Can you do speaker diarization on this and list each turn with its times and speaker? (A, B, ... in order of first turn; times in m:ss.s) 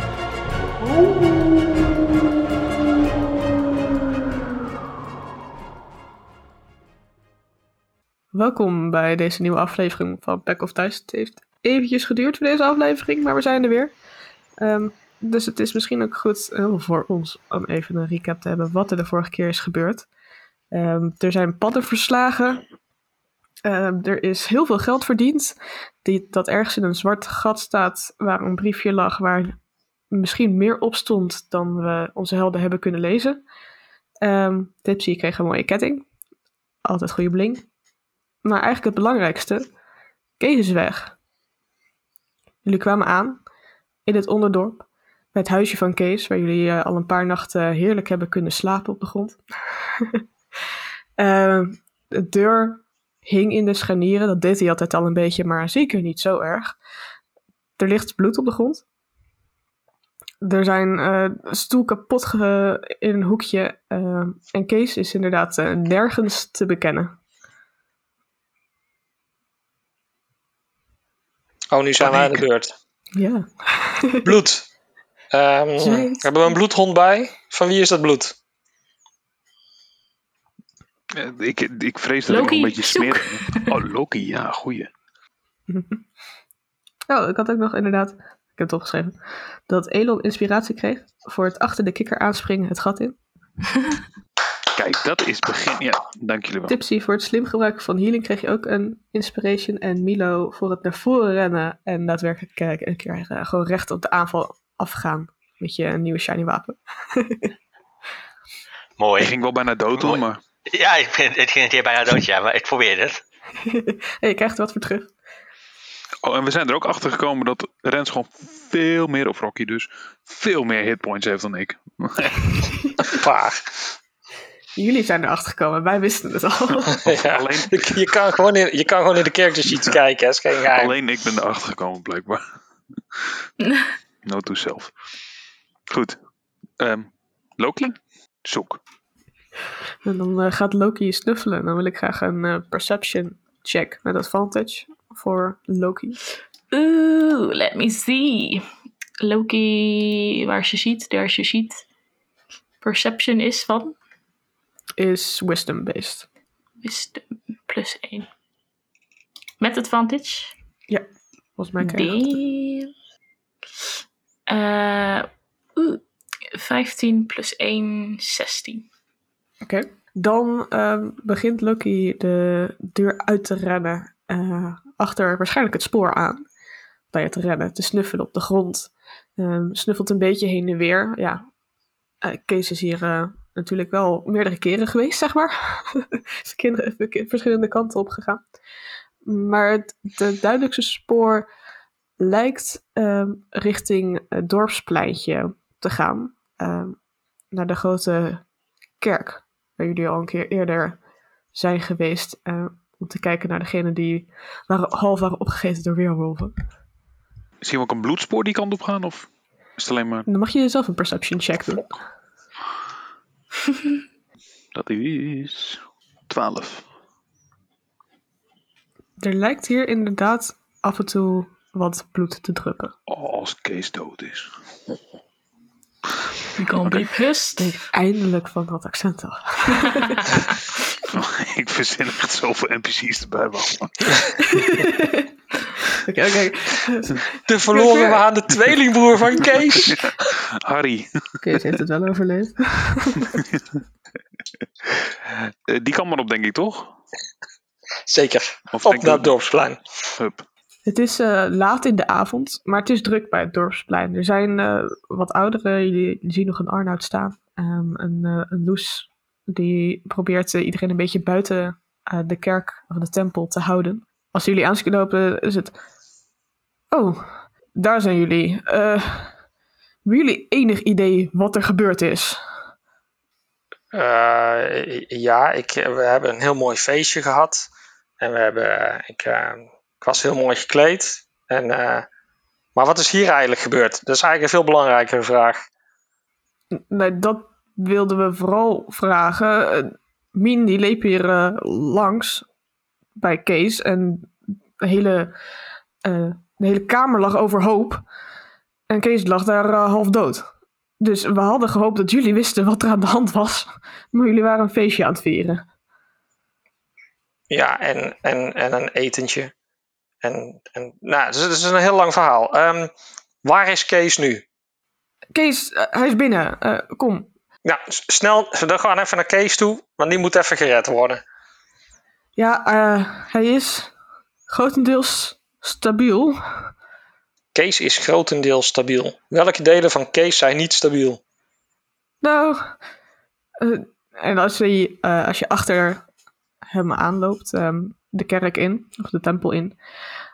0:00.8-0:01.3 A
0:08.3-0:13.9 A
0:14.6-0:20.1 A
0:20.7-0:22.6 A
0:23.6-0:29.6 A
0:30.1-0:33.4 A
0:34.2-0:36.0 A
0:36.8-0:37.6 A
0:38.4-0:39.6 A
0:40.4-0:41.1 A
0:42.6-0:43.4 A
0:44.0-0:49.4 A
0:50.0-0:50.2 A
0:51.2-0:56.7 A
0:57.8-0:58.8 A
1:00.4-1:07.2 A
1:11.7-1:12.7 B
1:12.0-1:12.4 C
1:13.1-1:14.3 A
1:14.2-1:14.6 B
1:15.3-1:18.4 B
1:15.8-1:16.5 A
1:21.1-1:24.9 C
1:22.3-1:23.8 D
1:25.7-1:26.0 A
1:27.1-1:29.1 A
1:29.7-1:33.2 A
1:34.7-1:36.8 C
1:36.7-1:47.5 A
1:49.0-1:49.3 E
1:49.2-1:50.4 C
1:49.9-1:53.2 E
1:53.6-1:55.1 A
1:56.2-2:02.9 C
2:03.0-2:03.7 B
2:04.8-2:07.0 A
2:07.0-2:11.0 B
2:07.0-2:08.0 C
2:09.7-2:10.0 C
2:10.7-2:12.4 C
2:14.2-2:14.9 C
2:15.9-2:16.2 C
2:16.8-2:18.8 C
2:20.0-2:26.2 A
2:26.7-2:28.6 D
2:29.2-2:31.8 D
2:32.8-2:34.0 D
2:35.0-2:36.2 A
2:36.8-2:38.3 D
2:39.6-2:40.5 D
2:41.6-2:42.2 A
2:41.8-2:42.9 D
2:44.5-2:46.0 D
2:46.5-2:48.8 D
2:49.6-2:56.4 A
2:57.1-3:01.4 A
3:02.2-3:08.4 A
3:09.2-3:11.5 A
3:12.2-3:17.0 A
3:17.5-3:18.4 A
3:19.0-3:21.0 A
3:21.5-3:26.5 A
3:27.6-3:30.3 C
3:30.3-3:31.9 A
3:34.7-3:36.8 C
3:39.2-3:42.9 A
3:43.1-3:44.5 C
3:46.6-3:47.7 D
3:47.6-3:50.3 A
3:51.1-3:54.6 C
3:54.4-3:55.3 A
3:55.8-3:58.2 A
3:57.4-4:00.0 B
3:59.8-4:01.7 C
4:01.4-4:03.4 A
4:03.3-4:03.8 C
4:04.9-4:06.9 C
4:08.1-4:09.8 B
4:08.7-4:09.3 C
4:10.1-4:10.4 C
4:10.8-4:25.7 A
4:26.9-4:29.3 A
4:30.0-4:32.4 A
4:33.9-4:37.7 B
4:38.2-4:42.0 B
4:42.8-4:45.6 B
4:46.7-4:52.4 A
4:53.2-4:55.3 A
4:56.0-4:58.0 A
4:58.9-5:00.4 A
5:01.0-5:05.6 A
5:07.5-5:09.5 B
5:10.2-5:12.9 B
5:13.4-5:14.4 B
5:15.3-5:17.3 A
5:17.6-5:21.2 B
5:22.4-5:23.9 A
5:24.5-5:26.4 A
5:27.5-5:31.2 B
5:32.2-5:32.7 A
5:33.6-5:36.0 A
5:36.7-5:39.7 A